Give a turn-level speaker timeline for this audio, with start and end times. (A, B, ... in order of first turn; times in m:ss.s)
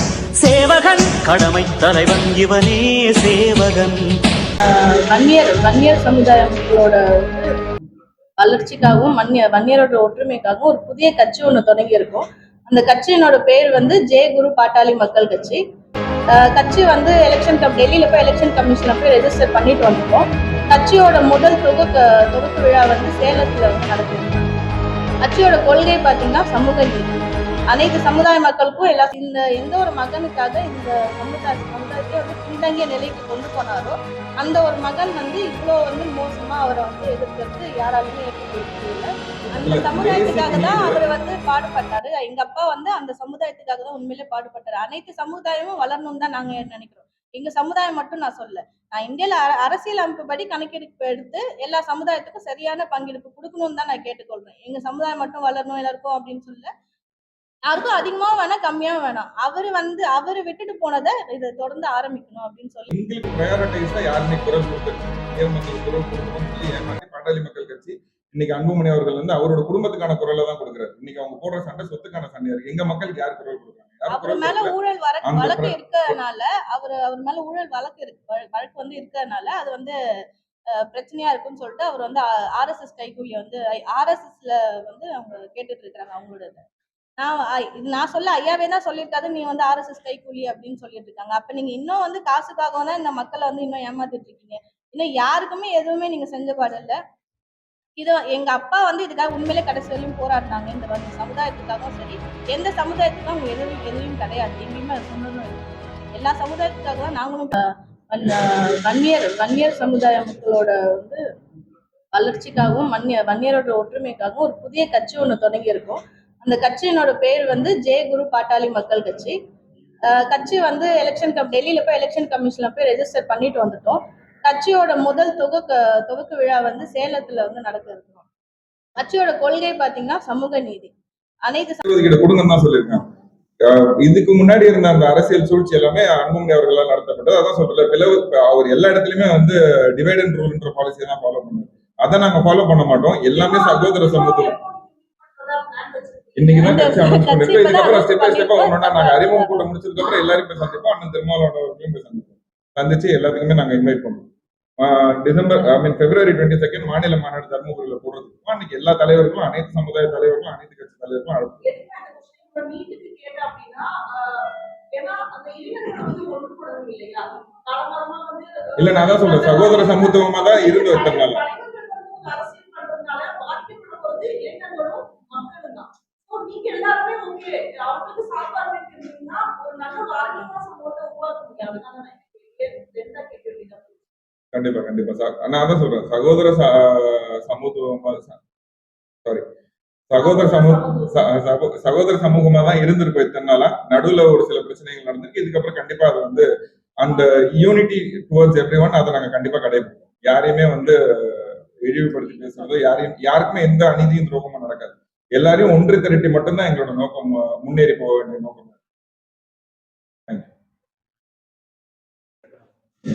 0:00.4-0:04.0 A
0:05.1-0:07.5 B
0:08.4-0:15.6 B
0:16.4-0:24.5 B
0:25.2-0:56.7 B
0:39.6-0:41.0 C
0:57.7-1:02.9 B
1:02.9-1:14.7 C
1:14.1-1:19.9 B
1:15.2-1:16.2 C
1:20.8-1:26.6 B
1:27.2-1:37.0 B
1:38.0-1:47.6 B
1:48.1-1:51.2 B
1:52.1-1:59.4 B
2:00.1-2:08.2 B
2:09.0-2:10.9 B
2:11.5-2:11.8 B
2:11.8-2:13.0 C
2:13.6-2:24.5 C
2:23.4-2:29.7 B
2:26.4-2:34.3 C
2:34.8-2:41.6 C
2:41.6-2:43.8 B
2:45.0-3:03.9 B
2:48.8-2:51.4 C
3:04.5-3:08.4 C
3:10.1-3:16.4 C
3:10.2-3:11.1 B
3:17.0-3:28.7 C
3:22.2-3:22.9 B